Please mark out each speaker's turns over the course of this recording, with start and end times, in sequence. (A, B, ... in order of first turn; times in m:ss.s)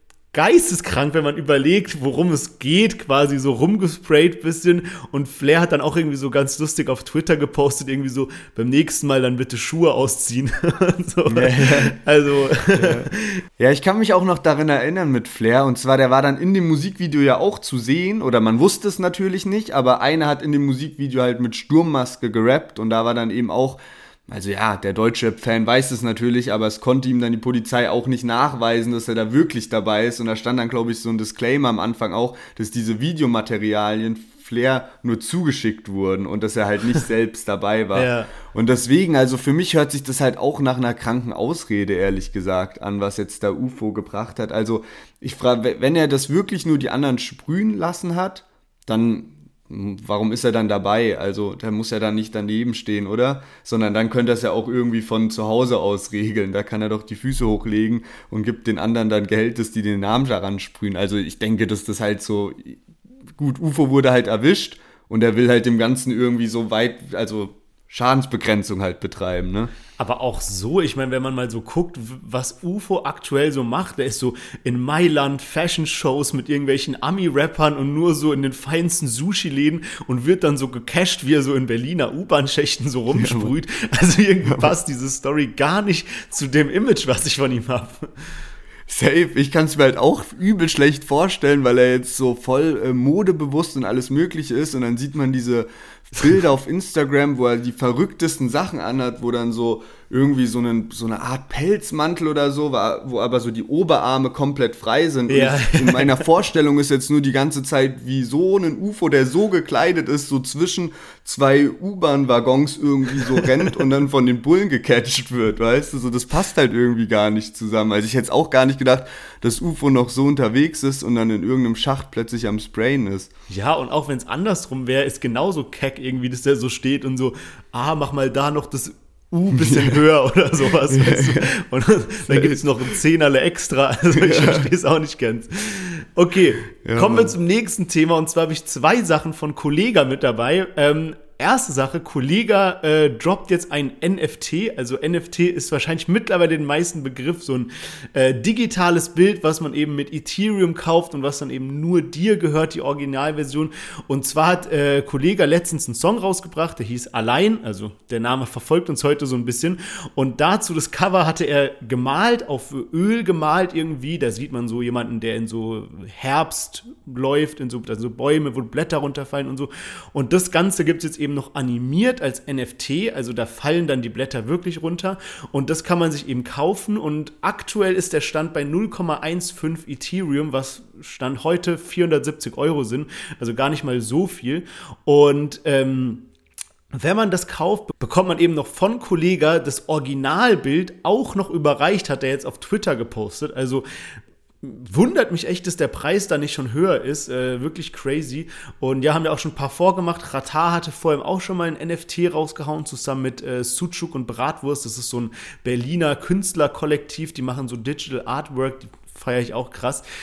0:00.3-0:13.1 A
0:11.3-0:12.0 B
0:12.7-1:02.8 B
0:37.9-0:38.3 A
1:03.4-1:09.7 B
1:10.0-1:28.0 A
1:23.1-1:23.5 B
1:24.4-1:24.7 B
1:28.9-2:03.3 B
1:45.3-1:46.2 A
2:03.5-3:06.3 A
2:09.5-2:10.0 B
2:10.9-2:11.5 B
2:12.3-2:12.7 B
2:14.1-2:14.7 B
2:16.8-2:17.3 B
3:06.9-3:13.8 A
3:14.6-3:30.0 A